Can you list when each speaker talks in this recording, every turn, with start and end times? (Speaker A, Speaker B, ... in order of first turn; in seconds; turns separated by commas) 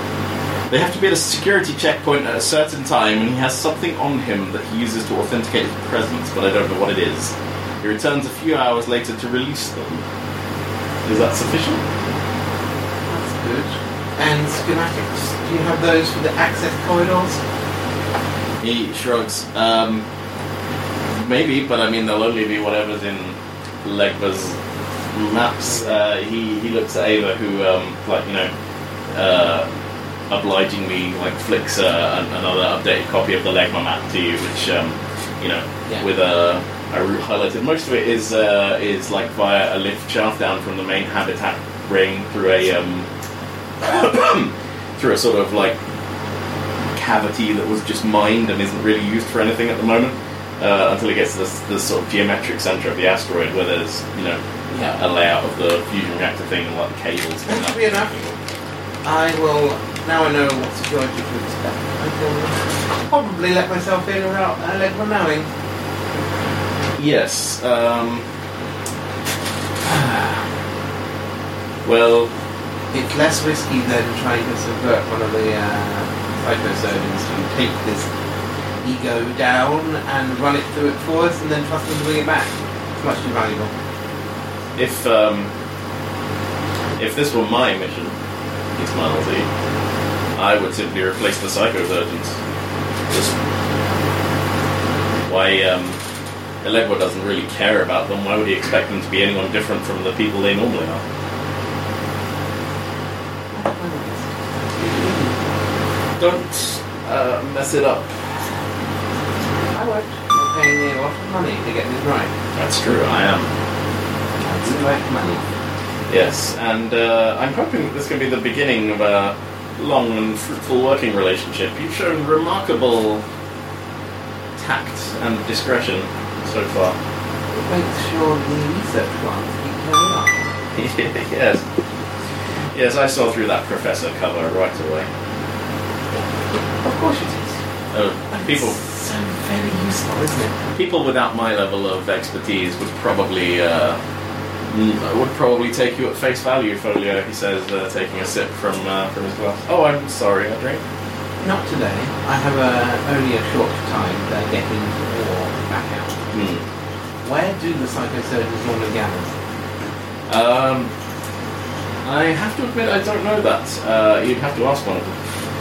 Speaker A: 0.7-10.0, Speaker A: 11.0-11.8, Speaker B: 13.1-17.4, Speaker A: 18.6-20.1, Speaker A: 21.1-24.6, Speaker A: 25.1-28.5, Speaker B: 25.7-26.0, Speaker A: 29.1-29.7, Speaker A: 30.3-43.1, Speaker A: 43.8-45.8, Speaker A: 46.9-58.4, Speaker B: 54.7-55.0, Speaker B: 57.5-58.1, Speaker B: 59.0-65.5, Speaker A: 67.0-68.3, Speaker B: 69.9-70.4, Speaker A: 71.8-72.3, Speaker B: 72.9-78.1, Speaker B: 78.8-83.7, Speaker A: 84.8-85.5, Speaker A: 87.0-88.1, Speaker A: 88.8-89.5, Speaker A: 90.3-92.4, Speaker A: 93.1-93.3, Speaker A: 95.2-96.0, Speaker A: 96.6-101.0, Speaker B: 103.5-105.4, Speaker A: 106.2-108.3, Speaker B: 109.7-112.3, Speaker A: 112.5-113.5, Speaker B: 114.3-115.4, Speaker A: 116.1-123.2, Speaker A: 124.6-127.0, Speaker B: 127.5-130.4, Speaker A: 130.7-131.6, Speaker A: 132.7-135.1, Speaker B: 136.8-137.6, Speaker A: 137.9-138.8, Speaker B: 138.3-140.6, Speaker A: 140.7-144.0, Speaker A: 144.7-150.8, Speaker B: 151.4-156.3, Speaker A: 156.3-156.6, Speaker B: 157.2-159.3, Speaker A: 160.3-160.9, Speaker A: 162.0-165.2